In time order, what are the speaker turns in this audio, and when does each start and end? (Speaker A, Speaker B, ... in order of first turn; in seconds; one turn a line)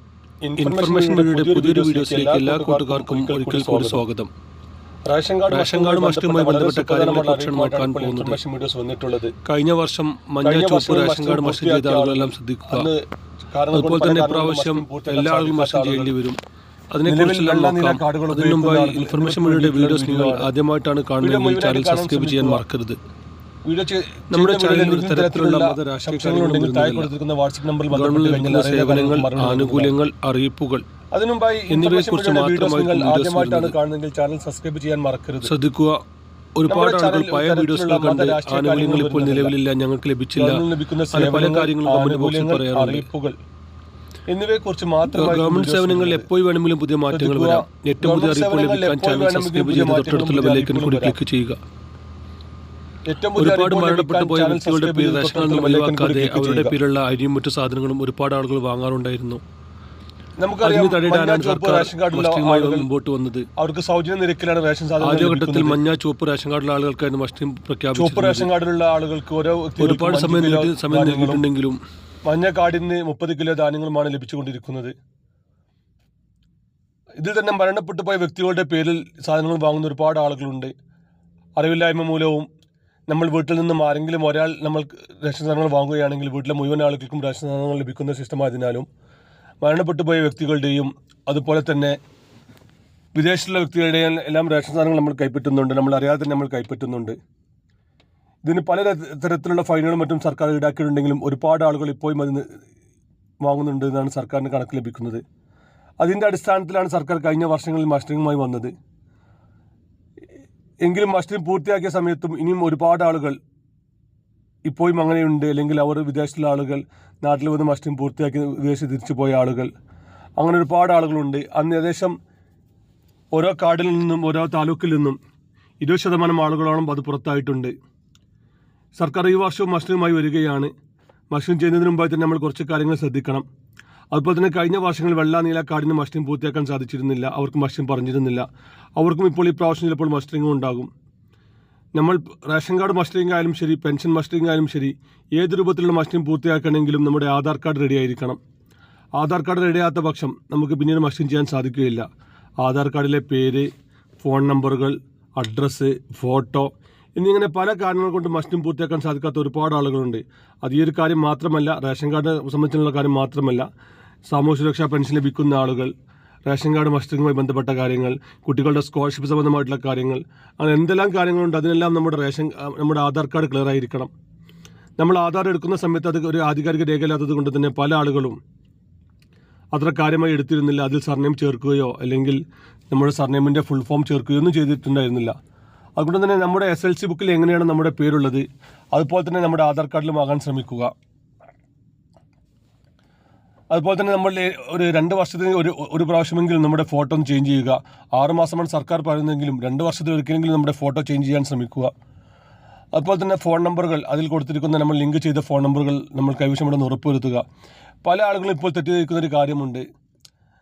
Speaker A: 0.4-4.0
Speaker B: 0.6-4.3
Speaker A: 5.1-9.3
Speaker B: 5.5-8.4
Speaker B: 9.4-12.9
Speaker A: 10.4-13.0
Speaker A: 13.5-16.1
Speaker B: 13.7-16.4
Speaker B: 16.9-23.0
Speaker A: 17.1-20.5
Speaker A: 21.2-22.6
Speaker A: 23.6-29.9
Speaker B: 24.3-27.1
Speaker B: 27.9-30.9
Speaker A: 31.1-35.5
Speaker B: 31.7-33.7
Speaker B: 35.4-36.0
Speaker B: 36.5-43.1
Speaker A: 36.7-39.5
Speaker A: 40.4-43.4
Speaker A: 44.3-46.3
Speaker B: 45.1-51.6
Speaker A: 47.1-51.2
Speaker A: 53.0-56.7
Speaker B: 53.4-59.4
Speaker A: 60.4-62.9
Speaker B: 60.6-63.5
Speaker A: 63.6-65.8
Speaker B: 65.0-68.5
Speaker A: 67.9-71.4
Speaker B: 69.8-71.8
Speaker A: 72.2-74.9
Speaker A: 77.2-80.7
Speaker A: 81.6-82.5
Speaker A: 83.1-88.8
Speaker A: 89.6-92.0
Speaker A: 93.1-97.2
Speaker A: 98.4-102.5
Speaker A: 103.4-105.2
Speaker A: 106.0-108.7
Speaker A: 110.8-113.4
Speaker A: 114.7-119.7
Speaker A: 120.4-122.1
Speaker A: 123.3-125.2
Speaker A: 125.8-127.7
Speaker A: 128.9-130.7
Speaker A: 131.3-133.4
Speaker A: 134.1-138.4
Speaker A: 139.0-140.9
Speaker A: 141.9-148.4
Speaker A: 149.2-152.1
Speaker A: 152.6-163.7
Speaker A: 164.3-165.9
Speaker A: 166.4-174.1
Speaker A: 175.0-178.4
Speaker A: 179.7-182.4
Speaker A: 182.9-185.3
Speaker A: 186.0-190.9
Speaker A: 193.7-201.9
Speaker A: 202.9-207.4
Speaker A: 208.0-209.8